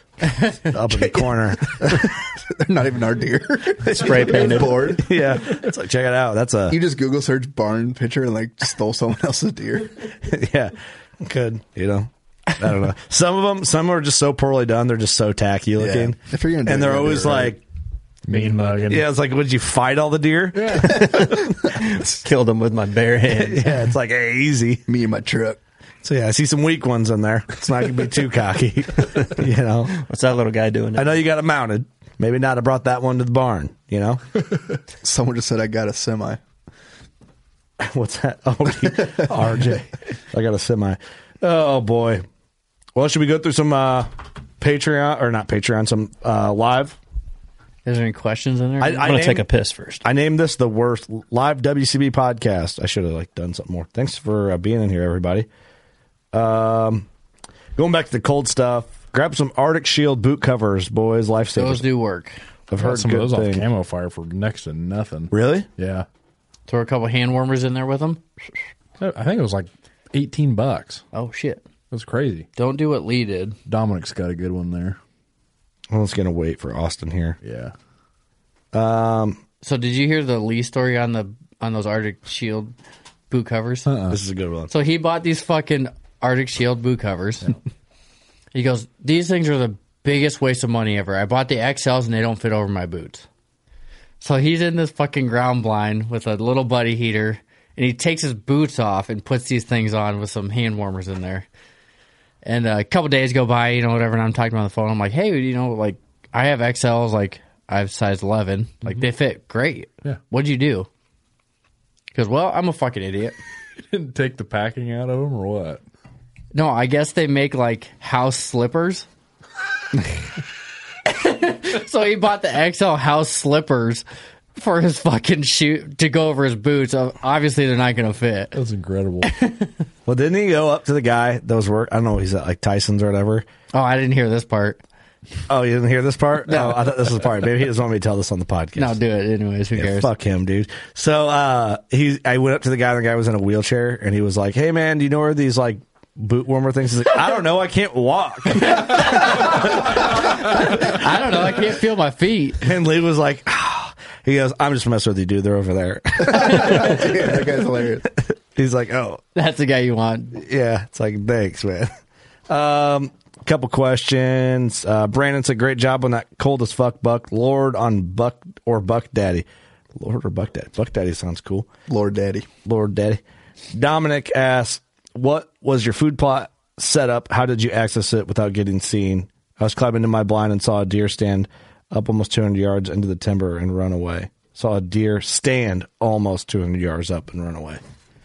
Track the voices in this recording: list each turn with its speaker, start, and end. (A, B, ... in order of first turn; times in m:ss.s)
0:00.3-0:00.5 A
0:00.7-0:02.1 B
0:00.9-0:05.2 C
0:03.8-0:06.8 B
0:04.0-0:04.9 D
0:06.7-0:10.0 C
0:10.3-0:17.6 B
0:15.8-0:17.6 C
0:18.3-0:19.1 E
0:18.3-0:18.9 D
0:18.9-0:21.7 B
0:20.6-0:20.9 E
0:21.7-0:23.8 D
0:23.3-0:24.8 B
0:24.9-0:25.6 C
0:26.0-0:29.9 B
0:30.0-0:31.2 D
0:31.0-0:34.2 B
0:35.0-0:36.4 C
0:37.8-0:42.2 B
0:38.9-0:39.3 C
0:42.9-0:47.0 B
0:47.8-0:49.2 A
0:48.8-0:49.4 B
0:49.0-0:50.0 D
0:50.0-0:55.5 B
0:56.3-0:57.0 B
0:57.8-1:01.8 B
1:01.5-1:02.4 A
1:02.7-1:03.6 B
1:02.8-1:06.0 E
1:05.3-1:05.7 B
1:06.7-1:08.2 A
1:09.0-1:11.0 E
1:11.1-1:11.6 A
1:11.9-1:12.5 E
1:12.6-1:13.6 A
1:13.6-1:15.0 E
1:15.9-1:17.4 B
1:17.4-1:17.7 E
1:18.7-1:19.4 B
1:19.6-1:22.7 A
1:23.3-1:23.9 A
1:23.8-1:24.2 E
1:24.1-1:24.7 B
1:24.7-1:27.6 A
1:28.5-1:33.2 A
1:34.2-1:41.4 A
1:42.4-1:50.9 A
1:52.1-1:53.4 A
1:53.9-1:55.8 E
1:56.5-1:59.1 A
2:01.0-2:04.0 A
2:04.6-2:08.5 A
2:08.5-2:09.3 E
2:09.2-2:09.8 A
2:10.0-2:13.4 B
2:13.7-2:14.8 A
2:15.5-2:19.0 B
2:16.5-2:17.2 A
2:18.8-2:20.1 A
2:19.7-2:30.2 B
2:28.7-2:29.6 A
2:30.2-2:32.7 A
2:32.6-2:37.4 B
2:36.2-2:38.1 C
2:38.3-2:39.2 B
2:39.3-2:40.4 A
2:40.3-2:41.9 B
2:42.5-2:49.4 B
2:50.0-2:51.7 B
2:51.9-2:52.5 C
2:52.6-2:53.2 B
2:53.7-3:07.8 B